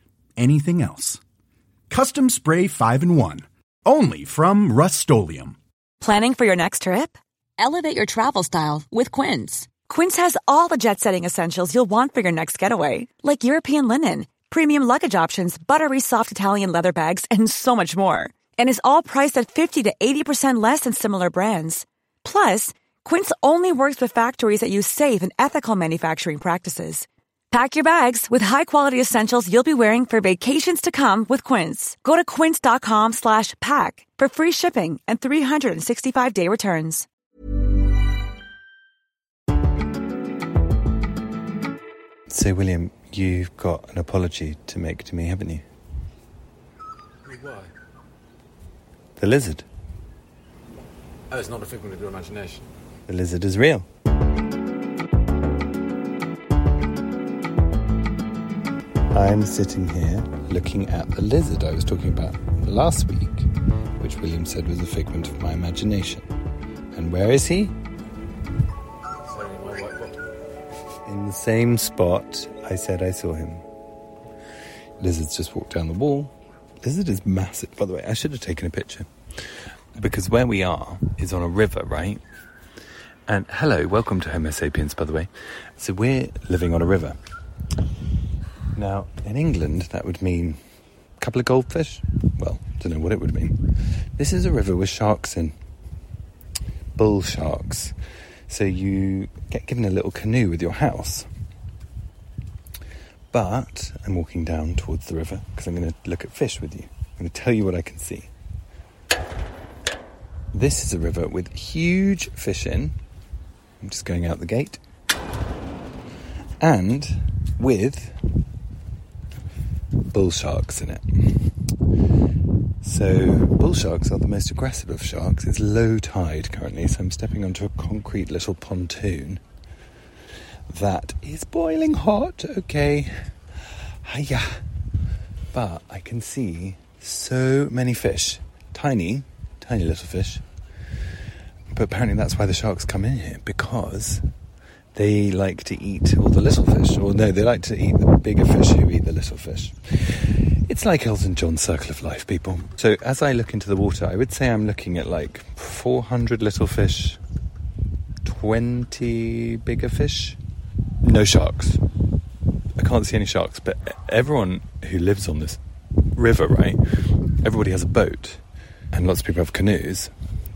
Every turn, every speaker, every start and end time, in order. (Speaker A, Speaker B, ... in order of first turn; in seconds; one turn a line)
Speaker A: 0.4-1.2
Speaker A: 1.9-5.5
Speaker B: 6.0-37.1
Speaker C: 42.3-45.6
Speaker D: 47.2-47.7
Speaker C: 49.2-49.6
Speaker D: 51.3-52.7
Speaker C: 53.1-53.9
Speaker C: 59.1-63.5
Speaker C: 64.0-66.3
Speaker C: 66.9-67.7
Speaker D: 69.3-70.2
Speaker C: 71.0-73.6
Speaker C: 75.0-79.1
Speaker C: 80.0-82.2
Speaker C: 83.3-87.2
Speaker C: 88.7-90.6
Speaker C: 91.2-95.5
Speaker C: 97.0-97.9
Speaker C: 98.5-101.3
Speaker C: 103.3-108.3
Speaker C: 110.5-113.0
Speaker C: 113.8-114.8
Speaker C: 116.6-118.3
Speaker C: 120.1-121.4
Speaker C: 122.8-129.4
Speaker C: 130.7-133.1
Speaker C: 134.0-134.6
Speaker C: 135.5-140.4
Speaker C: 141.7-144.2
Speaker C: 144.9-157.2
Speaker C: 158.2-160.4
Speaker C: 161.0-161.8
Speaker C: 162.8-165.6
Speaker C: 166.1-168.4
Speaker C: 168.9-170.1